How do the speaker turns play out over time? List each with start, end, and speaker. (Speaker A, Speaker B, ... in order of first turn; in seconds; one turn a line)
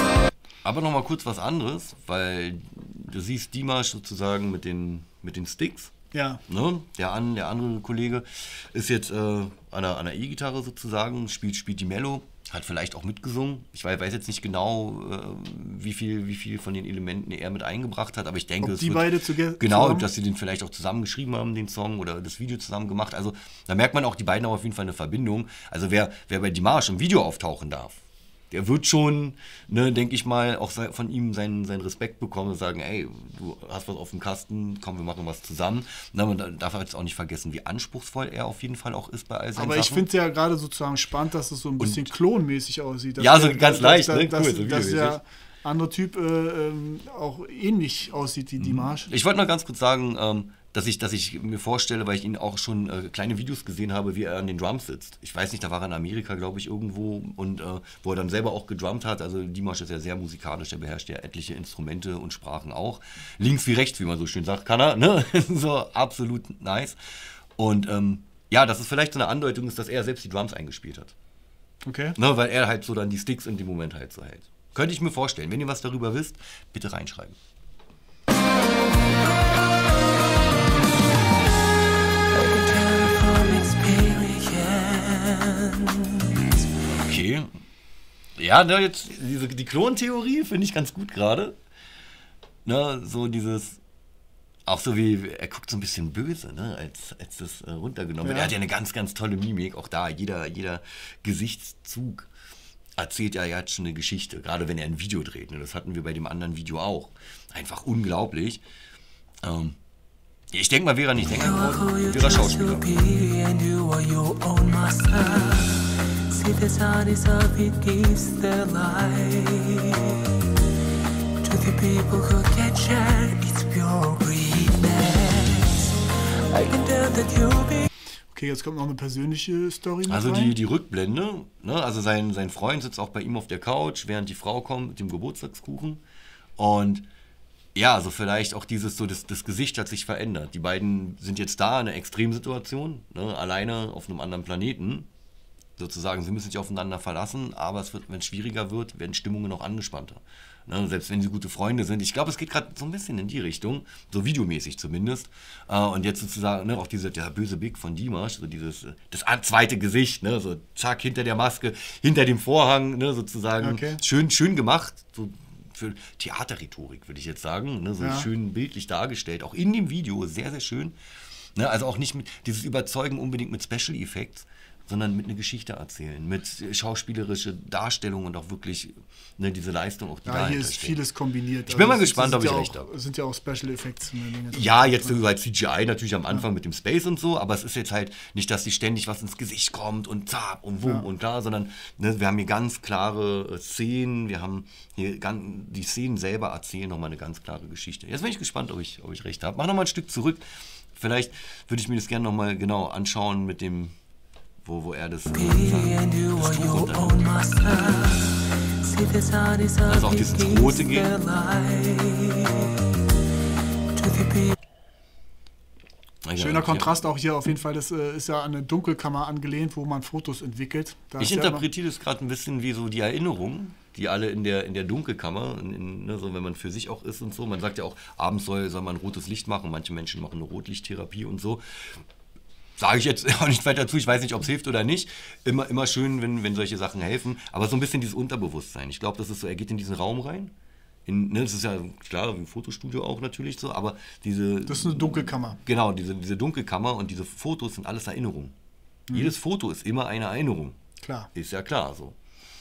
Speaker A: 0.6-5.9
Speaker B: 6.1-6.4
Speaker A: 6.5-40.1
Speaker B: 18.6-20.1
Speaker B: 39.6-49.1
Speaker A: 41.8-42.1
Speaker A: 43.2-45.2
Speaker A: 48.6-67.0
Speaker A: 67.6-71.2
Speaker B: 71.8-72.2
Speaker A: 72.2-77.4
Speaker C: 82.3-86.7
Speaker A: 86.9-87.5
Speaker A: 88.4-91.6
Speaker A: 92.7-93.8
Speaker A: 94.7-102.3
Speaker B: 98.2-98.5
Speaker A: 103.0-108.6
Speaker A: 109.4-109.8
Speaker A: 110.5-112.9
Speaker C: 111.3-120.3
Speaker C: 121.4-127.9
Speaker B: 128.3-130.6
Speaker A: 130.1-136.0
Speaker A: 136.6-137.1
Speaker A: 137.8-145.1
Speaker A: 145.8-171.0
Speaker B: 163.6-164.0
Speaker B: 168.0-168.3
Speaker A: 171.6-181.0
Speaker B: 180.2-185.2
Speaker A: 181.7-182.9
Speaker A: 184.5-200.4
Speaker A: 200.9-203.9
Speaker A: 204.6-207.3
Speaker C: 205.3-212.8
Speaker A: 209.9-211.2
Speaker C: 213.9-214.6
Speaker A: 216.2-216.9
Speaker B: 216.3-221.7
Speaker A: 221.2-232.0
Speaker A: 232.8-240.5
Speaker A: 241.1-248.6
Speaker B: 244.7-245.6
Speaker A: 249.1-250.8
Speaker B: 251.0-251.3
Speaker A: 251.3-252.2